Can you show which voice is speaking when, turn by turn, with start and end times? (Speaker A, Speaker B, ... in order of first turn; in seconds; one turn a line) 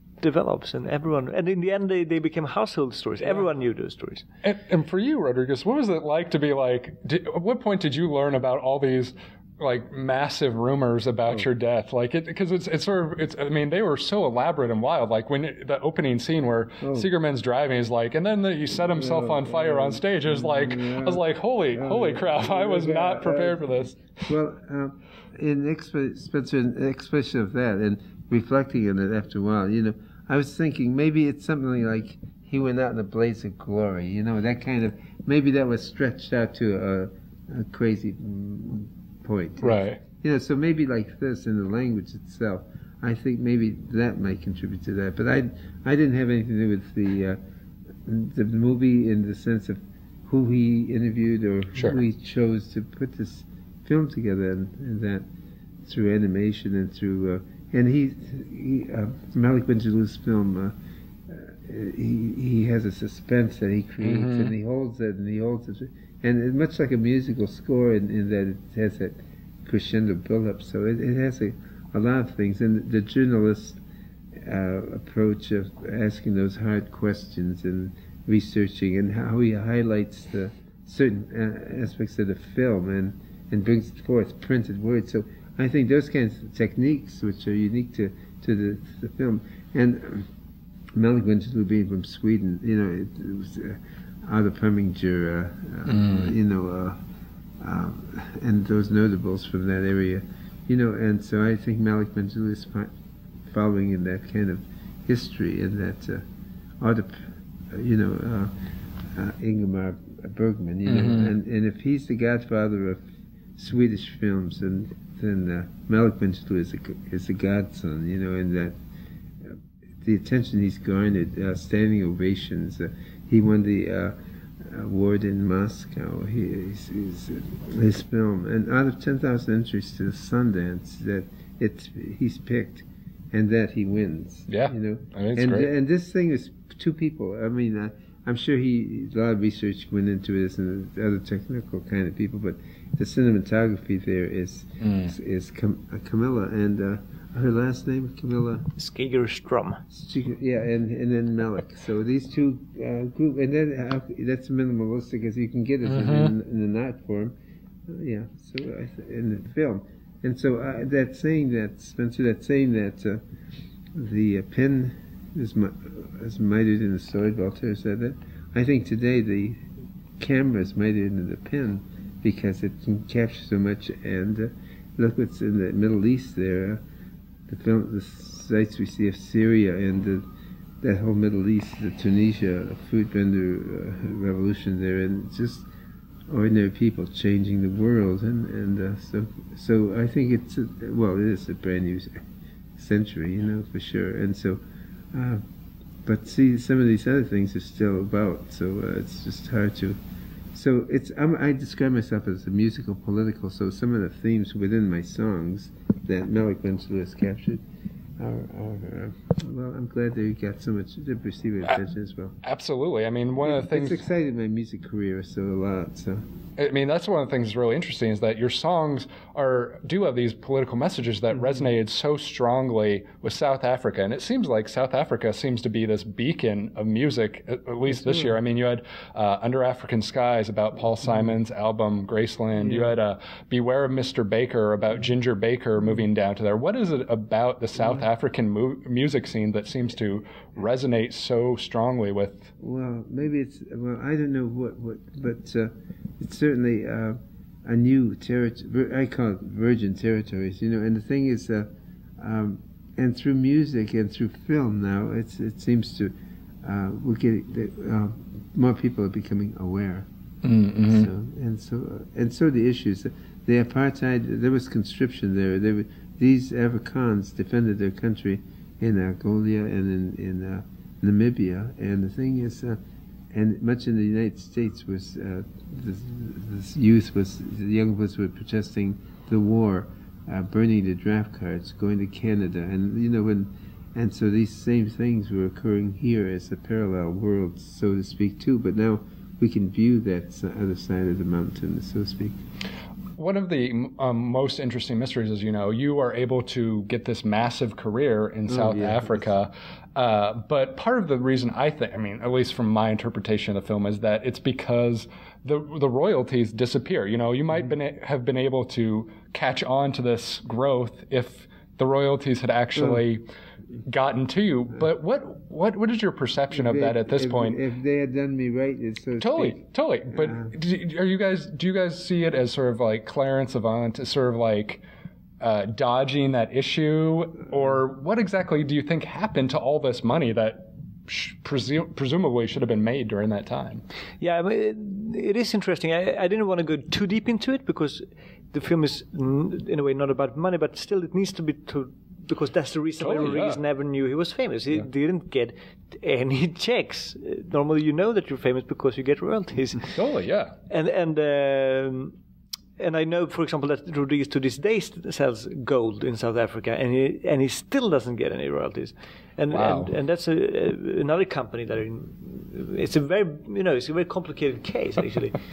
Speaker A: 0.2-4.2
Speaker B: 4.4-24.1
Speaker C: 16.8-17.1
Speaker C: 18.8-47.4
Speaker B: 39.6-40.0
Speaker C: 48.1-55.2
Speaker C: 55.9-60.7
Speaker C: 61.3-73.8
Speaker B: 64.0-64.5
Speaker C: 74.5-90.3
Speaker C: 91.0-97.0
Speaker B: 95.9-96.3
Speaker C: 97.6-102.9
Speaker C: 103.5-106.2
Speaker C: 106.8-108.5
Speaker C: 109.1-113.0
Speaker B: 110.9-111.3
Speaker C: 113.6-118.8
Speaker C: 119.5-148.7
Speaker B: 134.5-135.7
Speaker B: 144.8-145.1
Speaker A: 148.8-149.8
Speaker C: 149.9-157.3
Speaker B: 155.8-156.3
Speaker C: 157.9-163.2
Speaker C: 163.9-169.6
Speaker C: 170.2-176.8
Speaker C: 177.5-180.2
Speaker C: 180.8-185.7
Speaker C: 186.3-192.2
Speaker C: 192.8-194.6
Speaker C: 195.1-195.4
Speaker C: 196.1-200.0
Speaker C: 200.5-207.6
Speaker C: 208.2-212.4
Speaker B: 212.4-214.0
Speaker C: 213.4-216.2
Speaker B: 216.6-242.5
Speaker C: 227.9-228.4
Speaker C: 232.6-233.0
Speaker C: 237.8-238.1
Speaker C: 242.6-260.1
Speaker B: 260.4-261.1
Speaker C: 260.9-272.8
Speaker C: 273.3-292.4
Speaker B: 293.2-313.3
Speaker C: 298.5-299.3
Speaker B: 313.9-317.6
Speaker C: 316.5-320.4
Speaker B: 319.2-324.8
Speaker B: 325.4-333.8
Speaker A: 334.2-350.0
Speaker B: 343.0-343.6
Speaker B: 349.9-350.6
Speaker A: 350.7-352.2
Speaker A: 352.8-365.4
Speaker B: 359.5-359.9